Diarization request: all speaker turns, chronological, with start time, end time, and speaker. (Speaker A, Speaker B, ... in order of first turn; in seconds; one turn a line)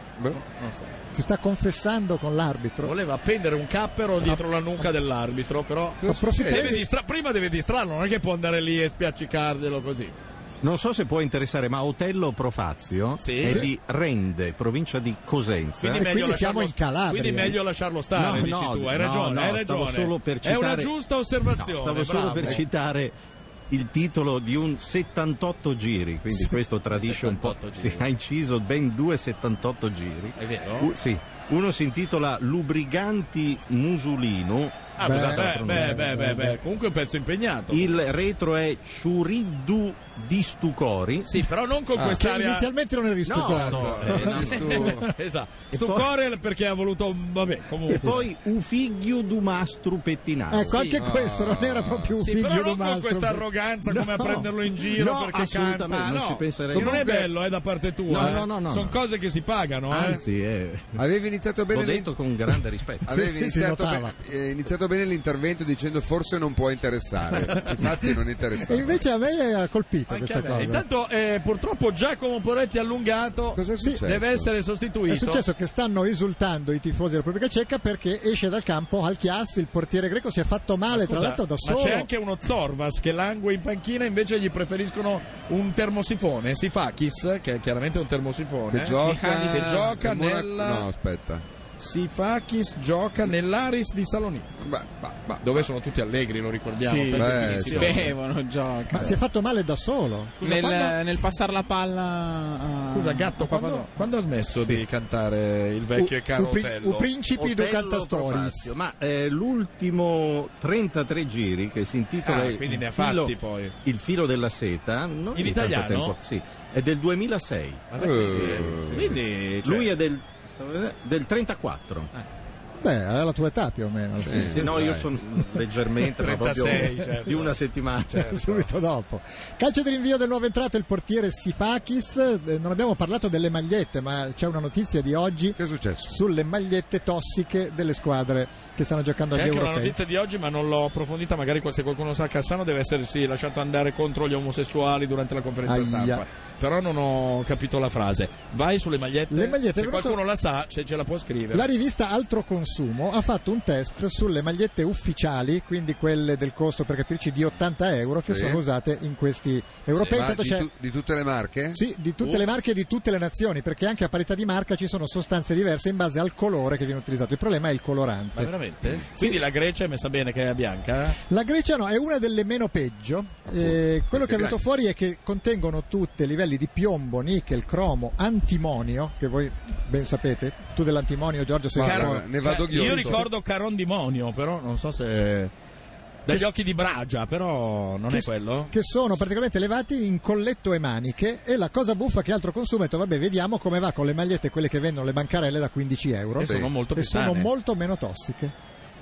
Speaker A: 0.3-0.9
Speaker B: 1.1-2.9
Speaker A: 2.8-10.1
Speaker C: 6.0-6.8
Speaker B: 6.0-6.8
Speaker D: 10.6-16.1
Speaker A: 13.2-13.7
Speaker B: 13.4-13.7
Speaker A: 15.8-22.6
Speaker B: 15.8-17.6
Speaker D: 18.1-20.9
Speaker D: 21.5-23.1
Speaker D: 23.7-36.5
Speaker A: 26.9-28.0
Speaker A: 30.4-30.9
Speaker A: 35.0-38.0
Speaker B: 35.0-36.5
Speaker D: 37.7-41.3
Speaker A: 41.2-42.7
Speaker C: 42.0-42.2
Speaker B: 42.0-44.4
Speaker D: 43.2-45.0
Speaker A: 43.5-48.1
Speaker C: 43.6-45.0
Speaker D: 45.7-46.1
Speaker D: 47.9-50.8
Speaker B: 50.5-53.4
Speaker A: 50.7-51.0
Speaker C: 51.0-52.1
Speaker A: 52.2-60.2
Speaker D: 53.9-57.1
Speaker C: 56.8-57.2
Speaker D: 58.1-59.0
Speaker D: 59.9-61.0
Speaker C: 61.0-62.1
Speaker D: 61.7-63.1
Speaker C: 63.0-69.0
Speaker B: 63.1-64.1
Speaker A: 67.3-67.7
Speaker B: 68.6-70.8
Speaker A: 70.1-75.4
Speaker C: 73.5-74.5
Speaker B: 73.8-74.0
Speaker B: 75.1-82.1
Speaker A: 80.9-90.9
Speaker C: 88.7-91.4
Speaker E: 89.0-89.9
Speaker A: 91.8-94.5
Speaker C: 94.6-95.7
Speaker A: 95.4-98.1
Speaker E: 96.8-99.2
Speaker C: 97.2-98.1
Speaker B: 98.9-101.1
Speaker E: 100.4-103.9
Speaker A: 102.9-107.1
Speaker B: 103.5-103.8
Speaker B: 106.0-108.7
Speaker D: 107.3-122.1
Speaker A: 112.2-113.7
Speaker A: 115.3-116.1
Speaker A: 117.9-119.9
Speaker C: 118.0-119.2
Speaker B: 122.8-124.7
Speaker C: 124.2-125.1
Speaker D: 124.5-128.6
Speaker A: 126.2-127.6
Speaker A: 128.1-128.6
Speaker B: 128.3-140.0
Speaker C: 135.6-136.2
Speaker A: 139.3-151.7
Speaker B: 145.7-146.2
Speaker B: 149.3-150.2
Speaker B: 151.5-160.7
Speaker C: 158.3-158.6
Speaker C: 160.0-161.8
Speaker B: 161.7-168.5
Speaker A: 168.3-171.2
Speaker B: 169.1-169.4
Speaker B: 171.3-183.2
Speaker C: 173.6-174.6
Speaker C: 181.7-183.2
Speaker A: 181.8-185.5
Speaker A: 186.2-188.7
Speaker B: 188.1-198.5
Speaker A: 196.4-197.5
Speaker C: 196.4-196.7